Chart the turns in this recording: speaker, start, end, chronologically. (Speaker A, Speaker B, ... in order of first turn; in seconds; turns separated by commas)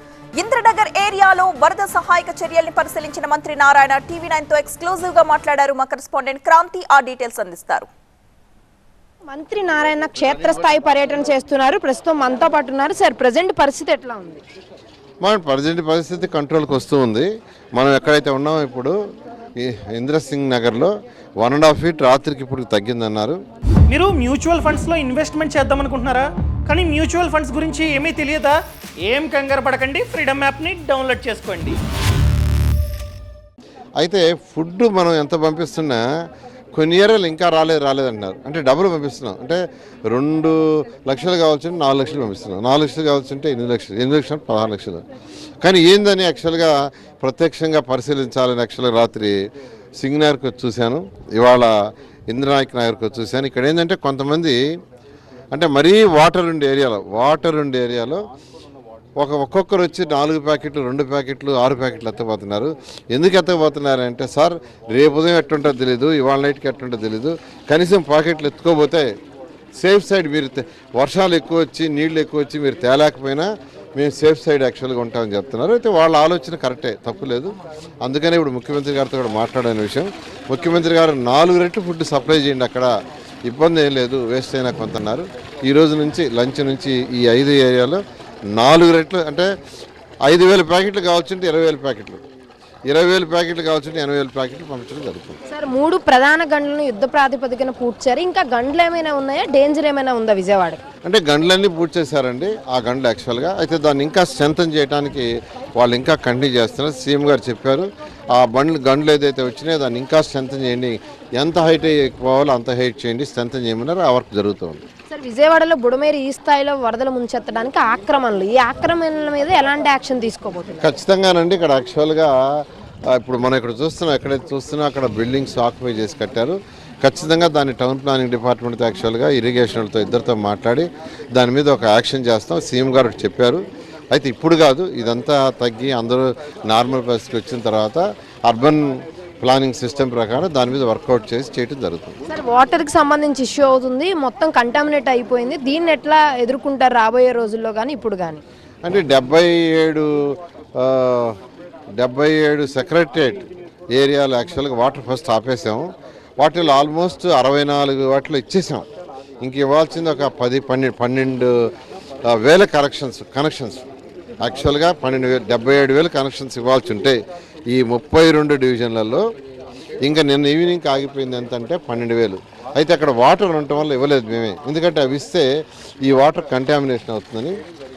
Speaker A: 0.4-7.9, Speaker B: 9.3-14.4, Speaker C: 15.2-18.9, Speaker C: 19.6-23.4, Speaker D: 23.9-31.8, Speaker C: 34.0-36.0, Speaker C: 36.7-45.0, Speaker C: 45.6-49.4, Speaker C: 50.0-51.7, Speaker C: 52.3-54.6, Speaker C: 55.5-58.2, Speaker C: 59.2-69.1, Speaker C: 69.8-82.9, Speaker C: 83.5-88.0, Speaker C: 88.5-89.5, Speaker C: 90.3-92.2, Speaker C: 92.9-95.4, Speaker B: 95.5-100.8, Speaker C: 101.0-114.8, Speaker B: 115.1-120.9, Speaker C: 120.8-142.2, Speaker B: 142.3-148.4, Speaker C: 148.8-151.4, Speaker C: 152.0-155.9, Speaker C: 156.4-158.9, Speaker C: 159.4-161.7, Speaker C: 162.3-163.8, Speaker C: 164.4-167.2, Speaker C: 167.7-169.2, Speaker C: 170.0-175.5, Speaker C: 176.0-177.6